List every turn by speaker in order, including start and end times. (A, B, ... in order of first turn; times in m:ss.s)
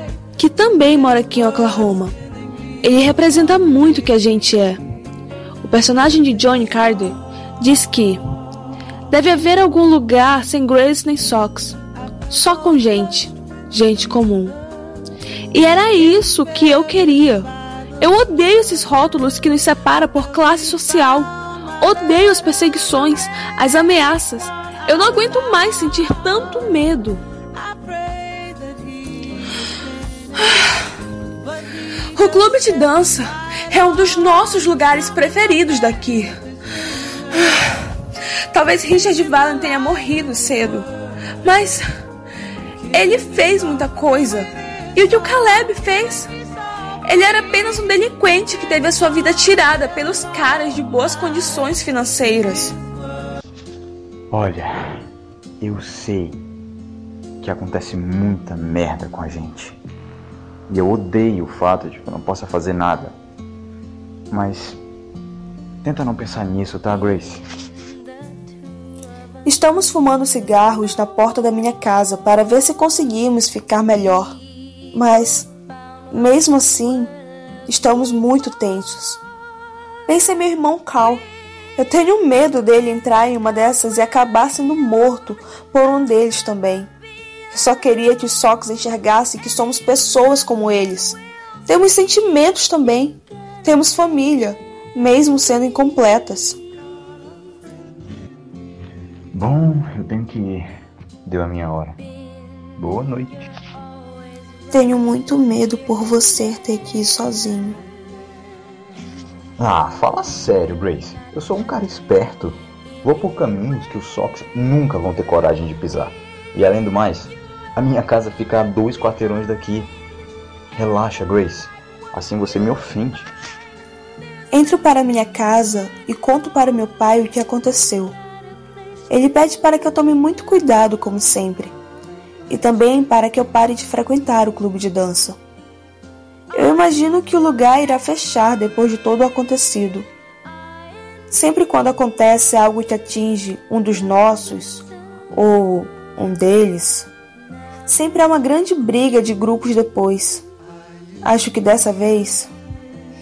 0:00.4-0:02.1 A
0:02.8-0:04.8 A
0:05.6-0:08.2 A
0:09.1-0:14.6 A
0:15.5-0:27.2 A
0:30.3-0:30.9 A
0:32.1-0:36.3 A
0:37.3-0:37.9 A
0:38.5-0:40.9 A
0:41.4-0:41.8 A
0:42.9-0:46.3 A
0:47.0-0:52.8 A
0:54.3-0:55.0 B
0:55.6-0:56.4 B
0:57.4-0:59.8 B
1:00.7-1:03.1 B
1:04.3-1:04.8 B
1:05.8-1:07.4 B
1:09.4-1:14.4 A
1:14.9-1:15.5 A
1:16.1-1:17.1 A
1:17.7-1:19.2 A
1:20.1-1:26.9 A
1:27.5-1:36.6 A
1:39.3-1:40.6 B
1:41.2-1:42.0 B
1:42.8-1:43.5 B
1:44.7-1:47.8 A
1:49.6-1:59.9 B
2:00.7-2:03.3 B
2:04.5-2:08.2 A
2:09.1-2:11.7 A
2:12.5-2:15.4 A
2:16.5-2:20.1 A
2:21.3-2:27.1 A
2:27.8-2:30.4 A
2:31.2-2:32.5 A